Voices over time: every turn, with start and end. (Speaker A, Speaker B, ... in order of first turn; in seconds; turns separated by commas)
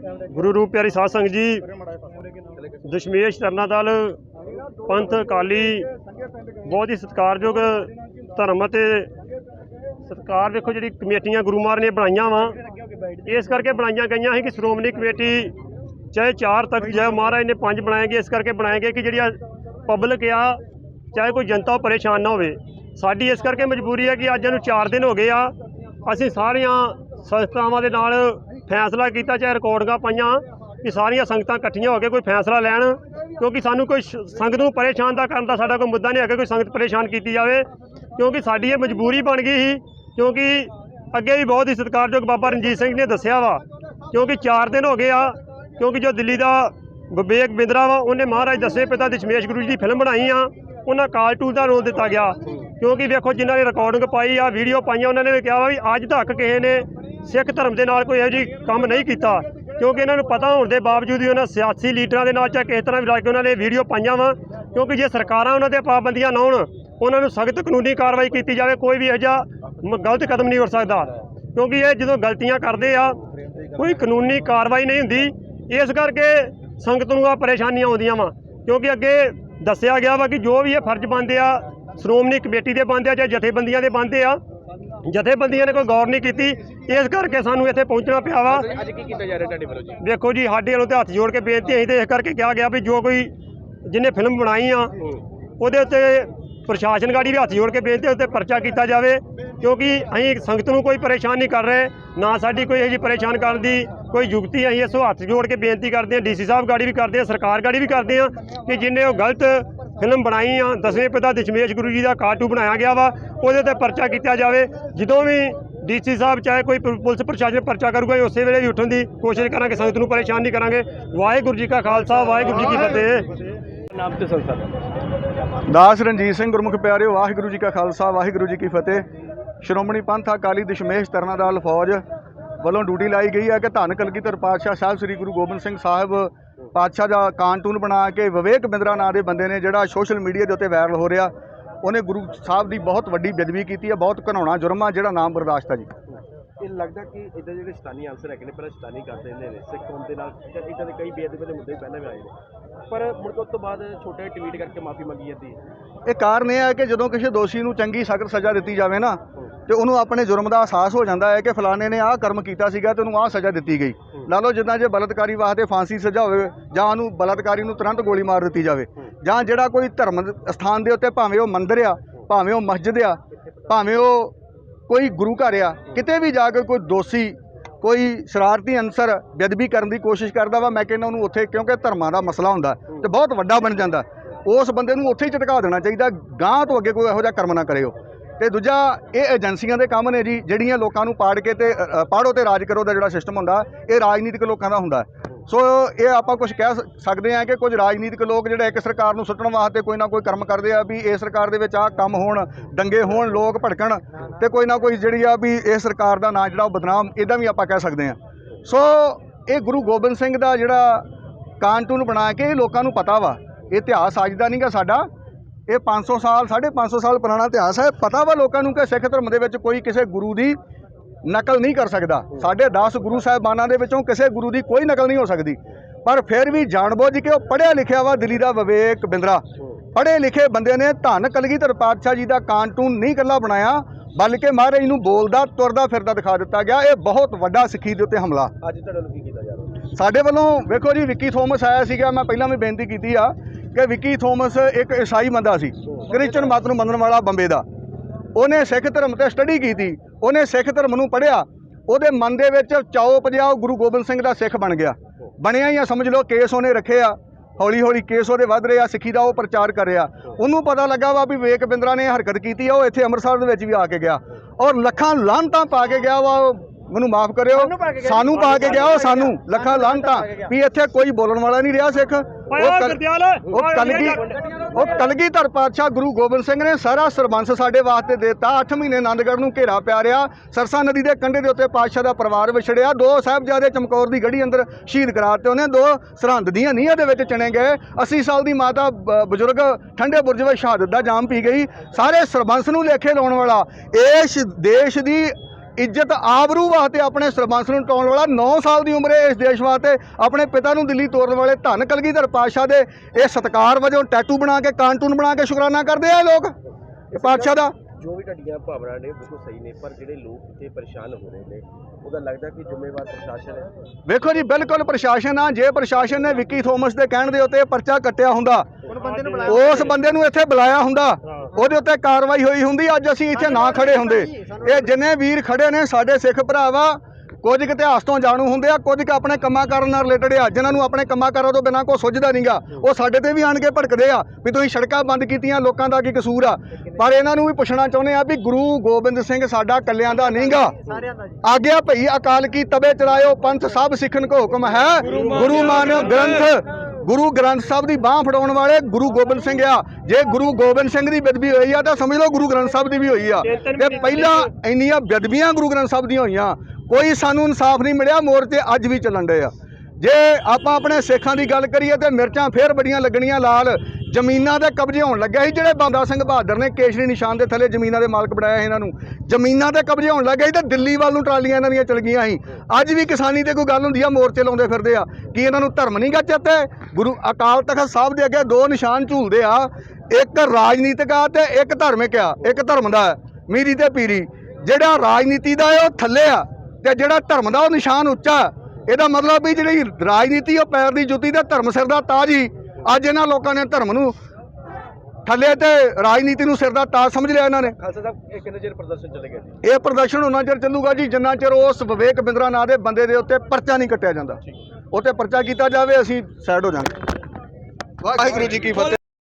Speaker A: 0.2-1.6, Speaker A: 2.9-4.2, Speaker A: 4.8-5.9, Speaker A: 6.6-9.1, Speaker A: 10.0-12.6, Speaker A: 13.2-15.5, Speaker A: 16.1-20.6, Speaker A: 21.1-25.5, Speaker A: 26.0-73.2, Speaker A: 73.8-84.4, Speaker A: 85.0-88.7, Speaker B: 88.5-90.0, Speaker A: 90.0-93.3, Speaker A: 93.8-94.9, Speaker A: 95.6-123.2, Speaker B: 123.9-124.7, Speaker C: 125.7-129.0, Speaker C: 129.6-132.0, Speaker C: 132.6-141.3, Speaker C: 141.8-145.9, Speaker B: 146.6-152.3, Speaker B: 152.9-155.6, Speaker C: 156.1-174.3, Speaker C: 174.9-211.0, Speaker C: 211.6-215.1, Speaker C: 215.7-220.6, Speaker C: 221.2-229.4, Speaker C: 229.9-238.5, Speaker B: 238.6-239.8, Speaker C: 239.9-247.6, Speaker B: 246.0-246.3, Speaker C: 248.3-274.2, Speaker A: 272.5-274.4, Speaker B: 274.3-274.6, Speaker C: 274.7-306.5, Speaker B: 307.1-313.7, Speaker C: 307.1-307.7, Speaker C: 314.1-318.7, Speaker A: 318.9-319.6, Speaker C: 319.4-340.8, Speaker A: 321.2-321.5, Speaker C: 341.4-394.1, Speaker A: 345.1-346.2, Speaker A: 353.4-354.5, Speaker C: 395.2-397.7, Speaker B: 397.8-399.6, Speaker C: 399.6-404.4, Speaker C: 404.9-407.0, Speaker C: 408.0-409.0